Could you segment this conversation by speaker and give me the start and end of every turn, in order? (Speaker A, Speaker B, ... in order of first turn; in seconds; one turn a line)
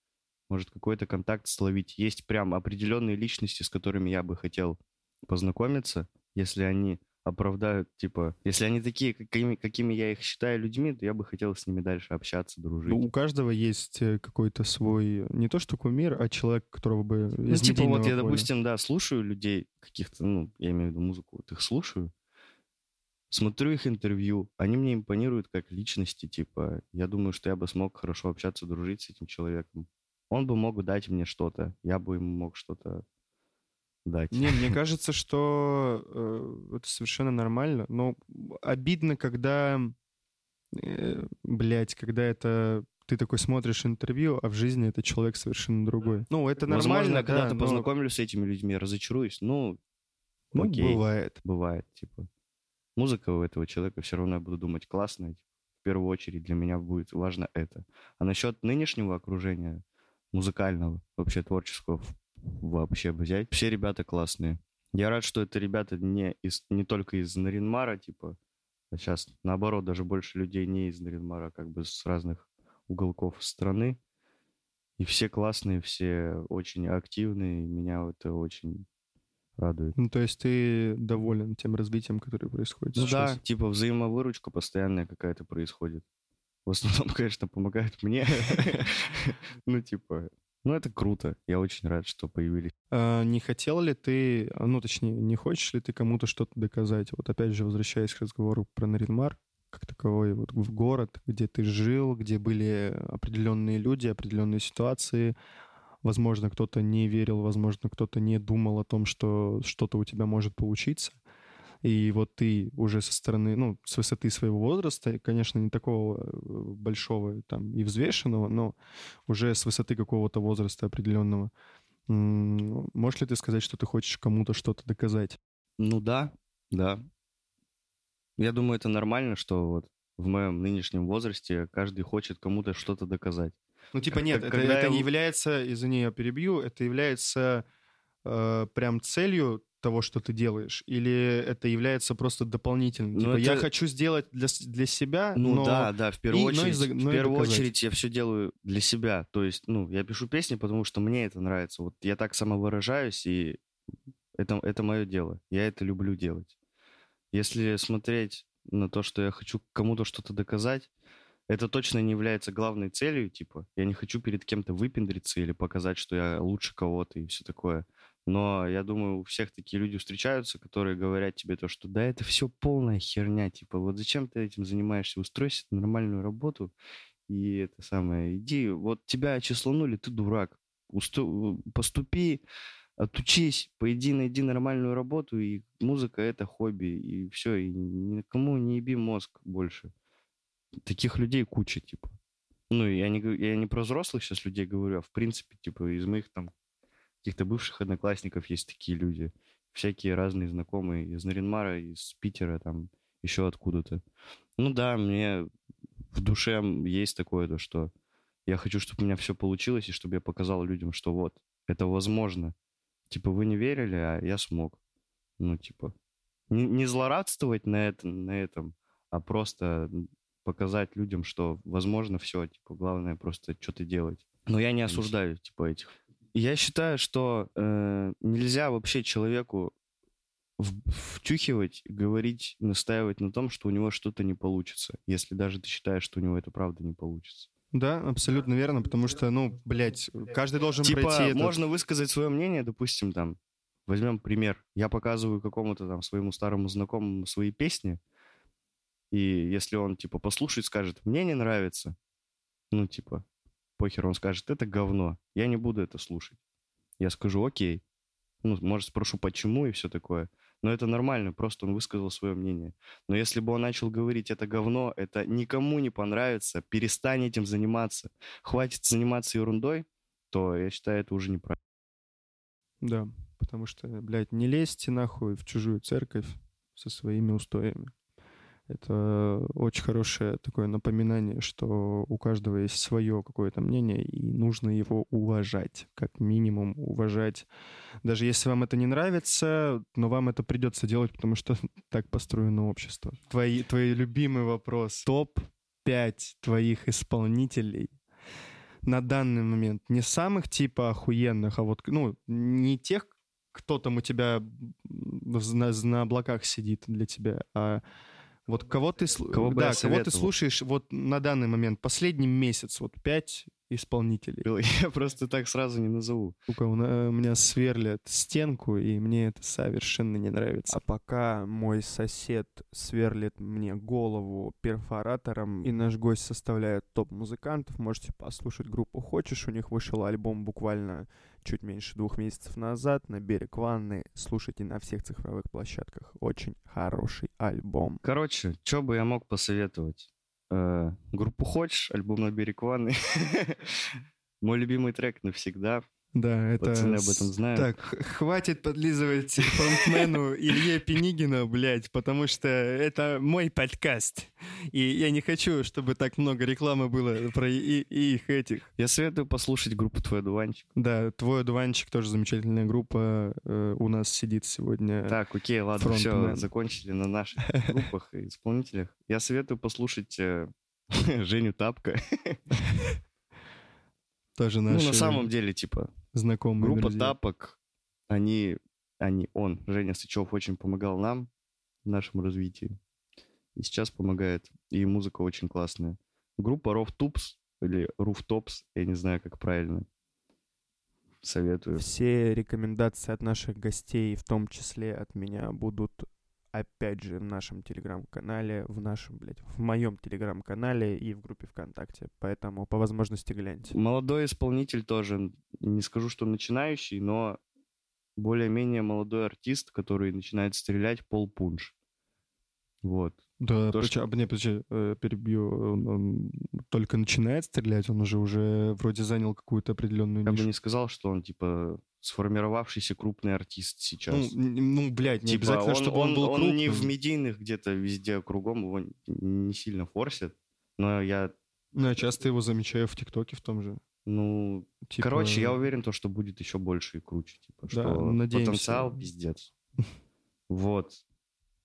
Speaker A: 0.5-13.0
Speaker B: 12.9-18.5
Speaker A: 17.5-22.1
Speaker A: 23.3-33.0
Speaker A: 34.0-34.8
Speaker B: 34.3-39.9
Speaker B: 40.7-47.9
Speaker A: 46.7-49.8
Speaker B: 50.5-51.4
Speaker A: 50.5-52.3
Speaker A: 53.0-68.4
Speaker A: 68.9-74.0
Speaker A: 75.0-78.8
Speaker A: 79.6-79.9
Speaker B: 80.0-83.4
Speaker A: 82.9-86.0
Speaker A: 86.7-92.7
Speaker B: 92.9-105.3
Speaker B: 106.0-111.2
Speaker B: 111.8-118.8
Speaker B: 119.3-121.5
Speaker B: 122.1-125.4
Speaker A: 125.8-127.0
Speaker A: 128.4-133.6
Speaker B: 133.9-137.6
Speaker A: 134.1-135.1
Speaker B: 138.2-147.7
Speaker A: 143.1-143.7
Speaker A: 145.3-153.6
Speaker A: 154.4-156.5
Speaker A: 157.3-160.9
Speaker A: 161.5-176.7
Speaker A: 177.3-182.4
Speaker A: 183.0-189.9
Speaker A: 190.8-192.2
Speaker A: 192.7-196.5
Speaker A: 197.2-204.0
Speaker A: 204.6-205.4
Speaker A: 206.1-207.9
Speaker A: 208.5-212.5
Speaker A: 213.1-214.8
Speaker A: 215.4-215.9
Speaker A: 216.5-229.7
Speaker A: 230.6-237.5
Speaker B: 237.7-241.6
Speaker A: 240.8-248.0
Speaker A: 249.1-251.9
Speaker A: 252.7-253.2
Speaker A: 253.8-256.4
Speaker A: 257.0-257.8
Speaker A: 258.4-271.6
Speaker B: 272.8-277.9
Speaker B: 278.7-287.5
Speaker B: 288.0-297.9
Speaker B: 298.8-307.8
Speaker B: 308.5-314.5
Speaker A: 309.3-310.3
Speaker A: 314.4-316.3
Speaker B: 316.5-338.0
Speaker A: 338.0-345.8
Speaker B: 346.1-358.7
Speaker A: 346.6-347.7
Speaker A: 349.4-350.1
Speaker A: 358.8-360.6
Speaker B: 360.7-365.2
Speaker A: 365.1-372.6
Speaker B: 365.8-366.5
Speaker B: 374.4-375.3
Speaker A: 374.7-375.9
Speaker B: 376.1-377.1
Speaker A: 376.6-377.6
Speaker A: 378.1-381.3
Speaker A: 381.8-382.8
Speaker A: 383.6-389.9
Speaker A: 391.2-391.8
Speaker B: 391.7-403.7
Speaker A: 403.7-407.4
Speaker A: 408.2-411.7
Speaker A: 412.8-413.2
Speaker B: 413.4-420.5
Speaker A: 420.2-424.3
Speaker B: 424.1-426.9
Speaker A: 425.2-431.3
Speaker B: 431.7-433.8
Speaker A: 434.1-439.5
Speaker B: 434.9-435.6
Speaker B: 437.7-439.0
Speaker A: 440.5-441.0